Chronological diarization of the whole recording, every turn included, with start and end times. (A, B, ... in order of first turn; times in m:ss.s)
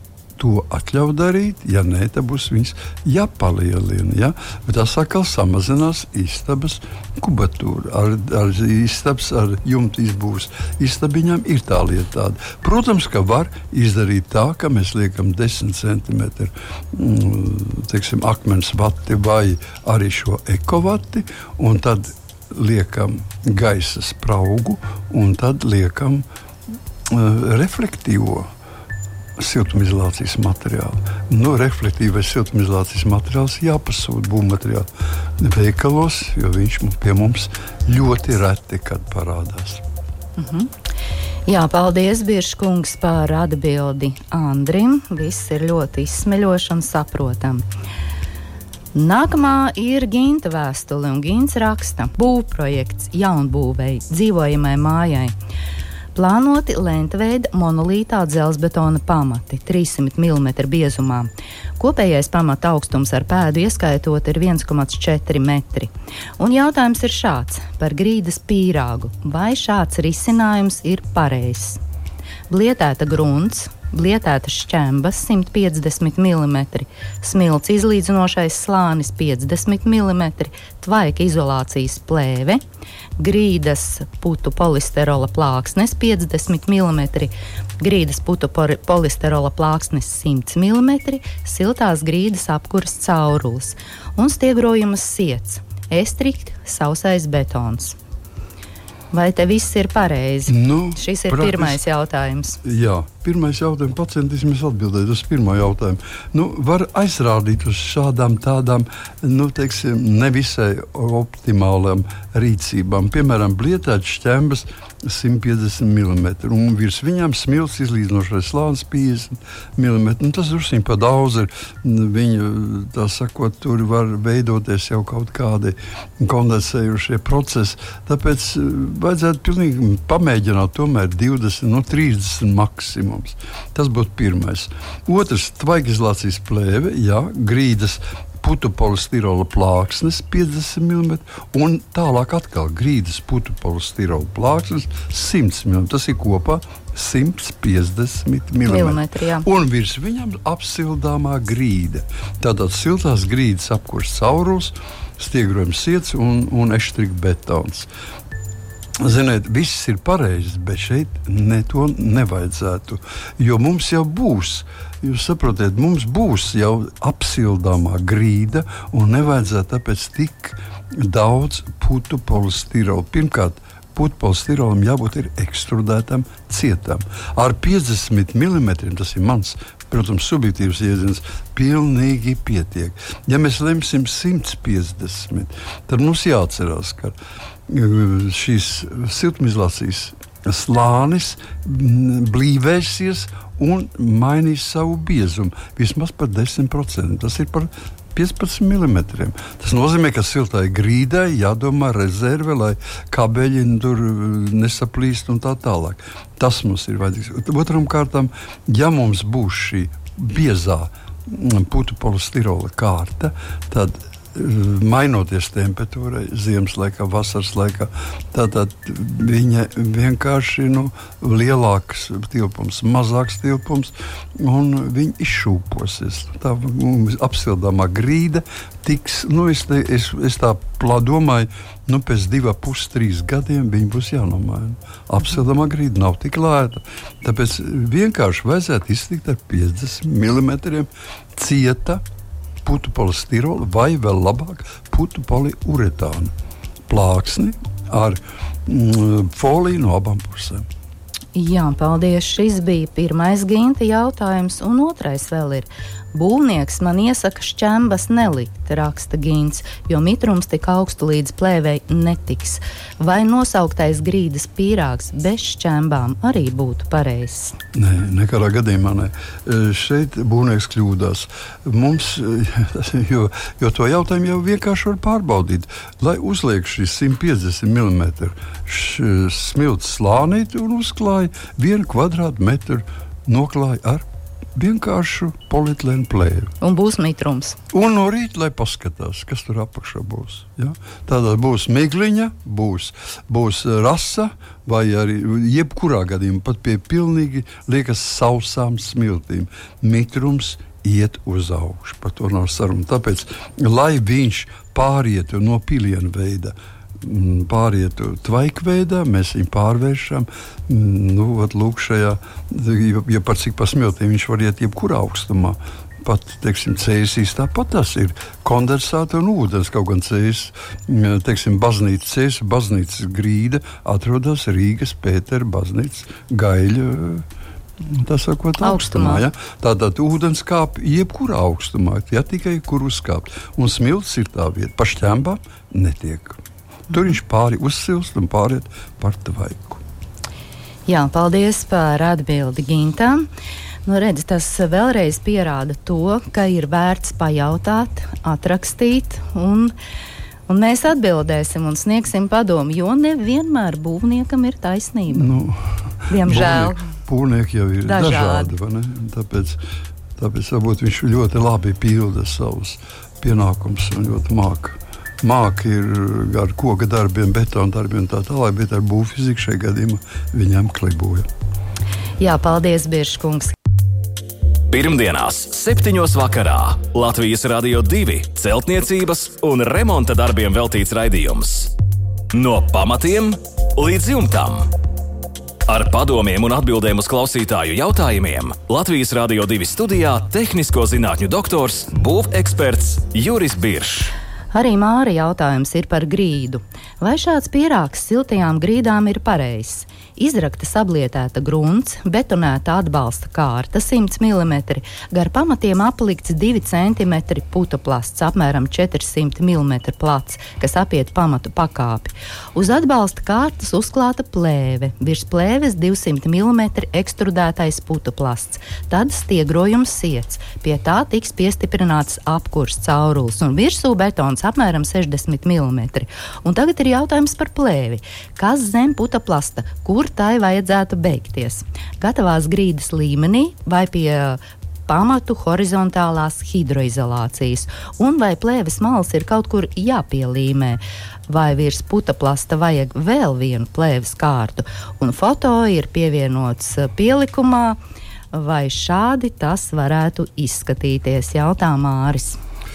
0:00.4-0:26.2 A
0:27.1-0:28.5 A
0:29.4-0:39.8 A
0:40.4-0:40.7 B
0:41.4-0:47.6 B
0:48.9-0:55.3 B
0:56.1-1:11.8 B
1:12.5-1:22.6 B
1:23.2-1:38.0 B
1:39.1-1:42.6 B
1:40.5-1:41.8 A
1:42.6-2:37.9 A
2:28.6-2:29.4 B
2:39.0-3:07.2 A
3:07.7-4:02.0 A
4:02.6-4:06.3 A
4:06.9-4:10.6 A
4:11.3-4:27.6 B
4:27.7-4:46.5 A
4:46.6-4:47.6 B
4:47.7-5:27.3 A
5:27.8-5:36.4 A
5:28.6-5:29.2 B
5:36.9-5:39.8 A
5:40.9-5:43.3 B
5:43.8-5:49.7 B
5:50.5-5:55.3 B
5:55.1-5:59.6 A
5:56.1-5:56.9 B
5:57.8-5:58.5 B
6:00.2-6:11.3 A
6:12.2-6:13.5 B
6:14.7-6:21.7 C
6:22.3-6:24.7 C
6:25.7-6:34.1 C
6:34.5-7:27.8 B
7:28.3-7:32.4 B